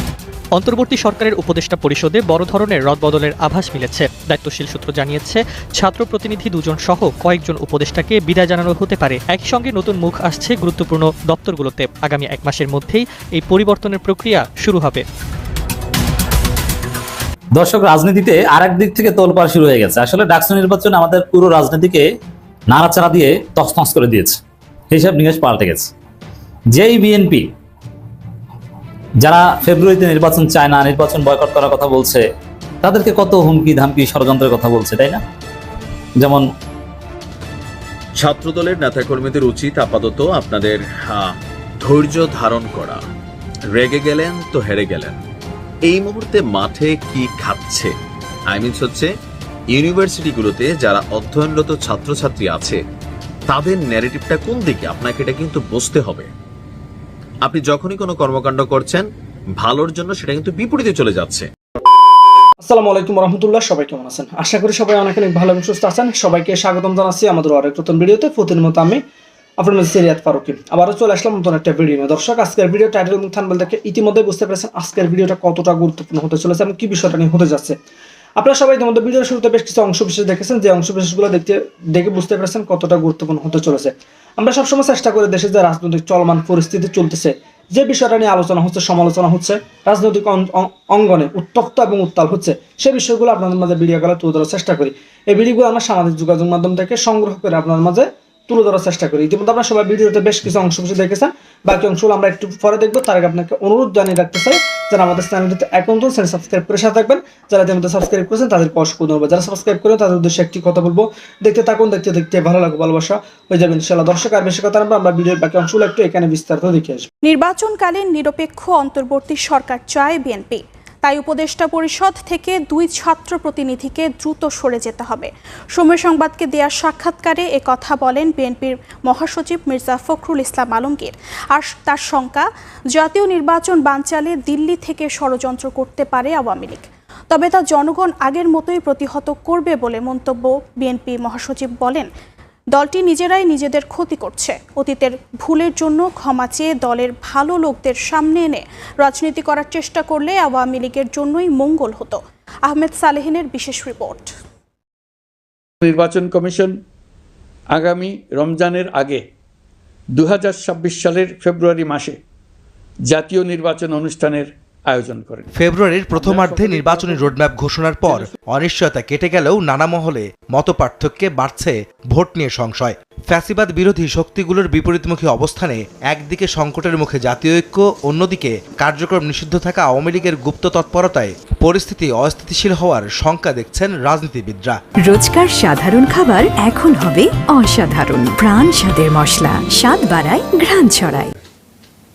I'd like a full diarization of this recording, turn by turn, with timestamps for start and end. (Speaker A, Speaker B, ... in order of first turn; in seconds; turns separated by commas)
Speaker A: 0.6-15.0, Speaker B: 17.6-22.1, Speaker B: 22.7-24.4, Speaker B: 24.9-25.9, Speaker B: 26.7-27.5, Speaker B: 29.2-32.2, Speaker B: 32.8-35.2, Speaker B: 36.2-36.5, Speaker C: 38.2-43.0, Speaker C: 43.7-45.2, Speaker C: 45.9-47.9, Speaker C: 48.5-49.1, Speaker C: 49.7-52.8, Speaker C: 53.5-56.3, Speaker C: 57.5-59.0, Speaker C: 59.6-61.5, Speaker D: 62.6-69.0, Speaker D: 69.6-77.8, Speaker D: 78.4-117.1, Speaker E: 117.2-142.1, Speaker E: 142.8-154.3, Speaker F: 155.8-156.8, Speaker F: 157.8-159.2, Speaker F: 160.2-162.2, Speaker F: 163.1-165.4, Speaker G: 165.5-184.8, Speaker F: 166.2-167.3, Speaker H: 185.0-191.3